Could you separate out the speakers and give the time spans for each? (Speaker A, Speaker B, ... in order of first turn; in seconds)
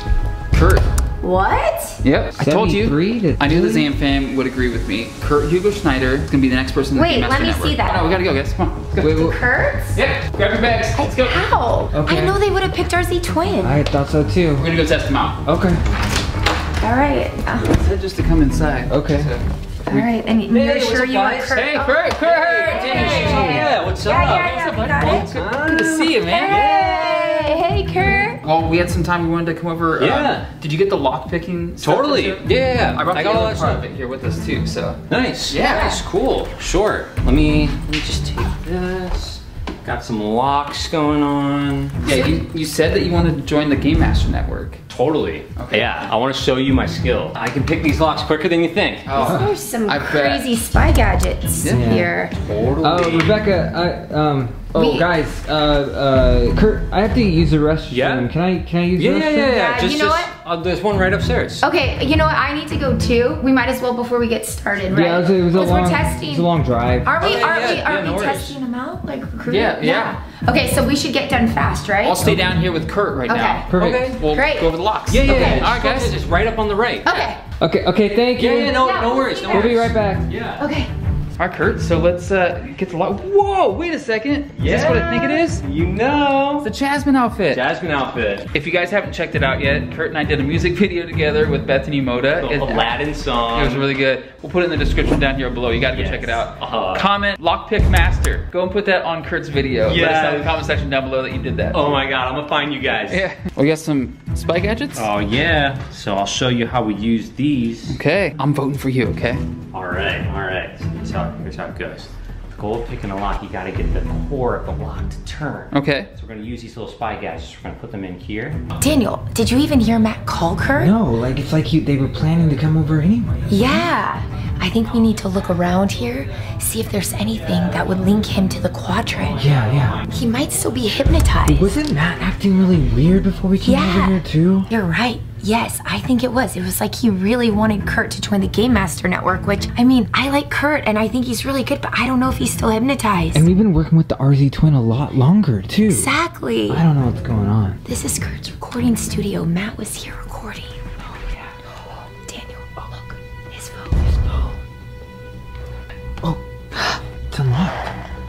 Speaker A: 0.5-0.8, 2.0-9.4, 9.9-11.4, 14.6-15.4, 17.6-20.1, 21.5-27.6, 28.3-35.9, 42.0-44.8, 45.5-46.1, 49.0-50.5, 69.5-70.2, 72.0-76.1, 81.4-85.6, 86.6-87.6, 88.5-92.9, 93.5-102.0, 103.1-105.1, 107.9-109.4, 115.7-116.1
Speaker B: 1.2-2.0, 6.9-8.1, 9.0-10.0, 10.9-13.8, 16.8-17.7, 19.9-22.1, 22.7-25.3, 26.3-28.4, 35.5-36.0, 49.1-52.3, 54.7-55.1, 59.5-60.3, 61.6-66.5, 67.0-72.2, 73.3-73.7, 74.3-74.7, 75.2-75.6, 77.0-77.4, 78.8-79.9, 80.6-80.9, 118.8-120.9, 123.5-129.5, 130.0-131.7, 133.6-143.5, 145.9-146.8, 147.8-150.8, 152.3-154.1
Speaker C: 2.4-3.9, 11.9-12.4, 13.6-14.7, 15.4-15.8, 18.9-19.3, 49.2-49.5, 51.6-52.1, 52.8-59.5, 64.9-67.2, 72.2-72.5, 73.7-74.1, 77.6-78.8, 79.5-80.3, 120.7-123.9, 129.4-130.0, 131.4-134.7, 143.3-146.1, 146.7-147.8, 151.2-151.5, 157.3-157.8
Speaker D: 20.5-27.3, 30.0-30.5, 31.8-33.8, 35.1-42.0, 44.9-49.1, 52.4-53.4, 57.9-58.3, 58.9-61.6, 67.2-68.5, 73.8-74.2, 75.1-77.2, 78.4-80.7, 84.5-86.7, 87.5-88.5, 92.4-93.9, 95.8-97.1, 99.8-100.6, 101.7-103.2, 104.9-108.0, 109.7-118.6, 129.4-130.7